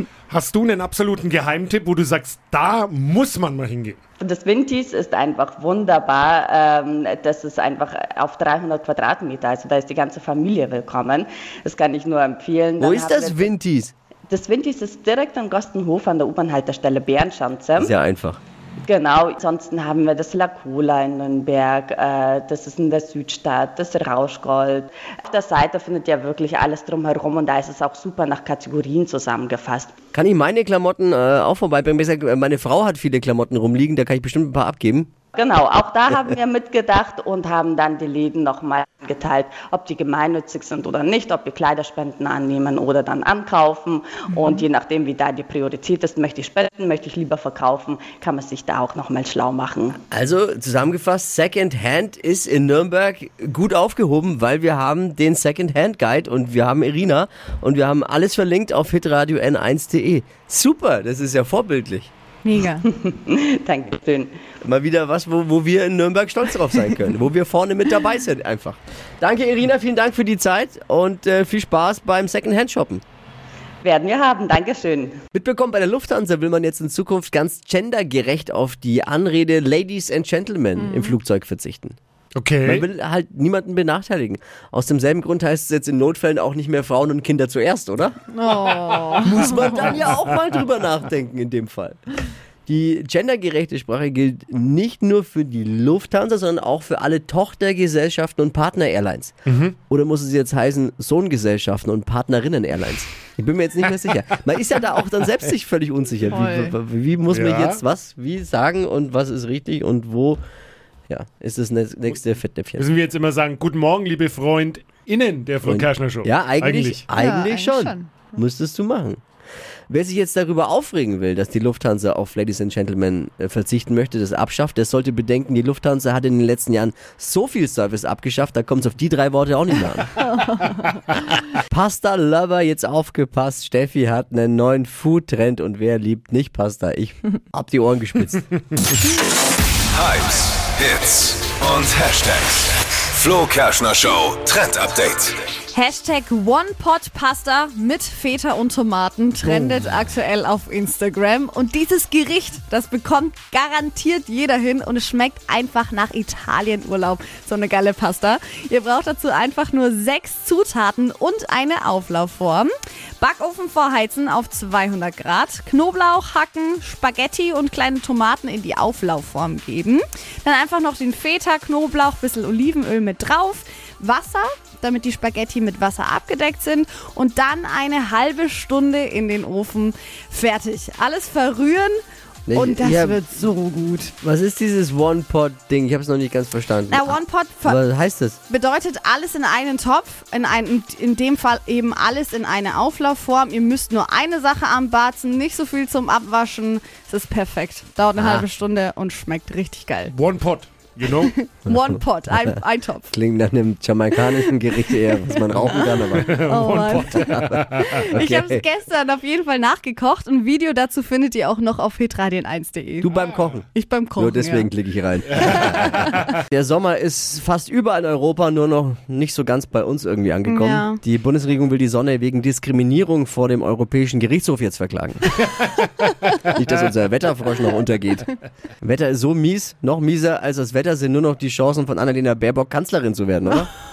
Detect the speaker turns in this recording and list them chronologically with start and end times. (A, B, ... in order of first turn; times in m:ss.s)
0:00.3-0:04.0 A
0:04.2-0:13.5 B
0:12.8-0:13.9 C
0:14.3-0:17.9 B
0:17.8-0:18.4 C
0:18.8-0:29.9 B
0:30.1-0:35.1 C
0:35.4-0:50.0 B
0:50.1-1:02.1 C
1:02.4-1:02.9 D
1:02.8-1:04.3 B
1:04.6-1:13.0 C
1:13.8-1:15.2 B
1:15.3-1:22.0 C
1:20.8-1:21.2 D
1:22.4-1:22.9 A
1:22.6-1:28.2 C
1:28.3-1:29.6 D
1:29.2-1:39.4 C
1:39.5-1:39.8 A
1:39.9-1:50.4 C
1:46.3-1:46.8 D
1:47.3-1:47.8 A
1:51.1-1:52.9 C
1:52.8-1:57.0 A
1:55.6-1:59.2 C
1:57.2-1:58.3 D
1:59.9-2:10.2 C
2:11.5-2:18.5 C
2:19.9-2:25.4 E
2:25.7-3:02.0 D
3:02.5-3:03.4 C
3:02.5-3:04.1 D
3:04.0-3:08.4 C
3:06.9-3:07.8 D
3:08.5-3:20.2 D
3:18.2-3:18.5 C
3:20.1-3:21.3 A
3:21.2-3:23.1 D
3:21.7-3:22.5 C
3:23.1-3:26.4 C
3:24.5-3:33.1 D
3:25.7-3:28.0 A
3:27.2-3:28.6 C
3:33.0-3:45.3 C
3:33.7-3:34.7 D
3:35.3-3:36.3 D
3:40.5-3:41.0 D
3:46.5-3:53.7 C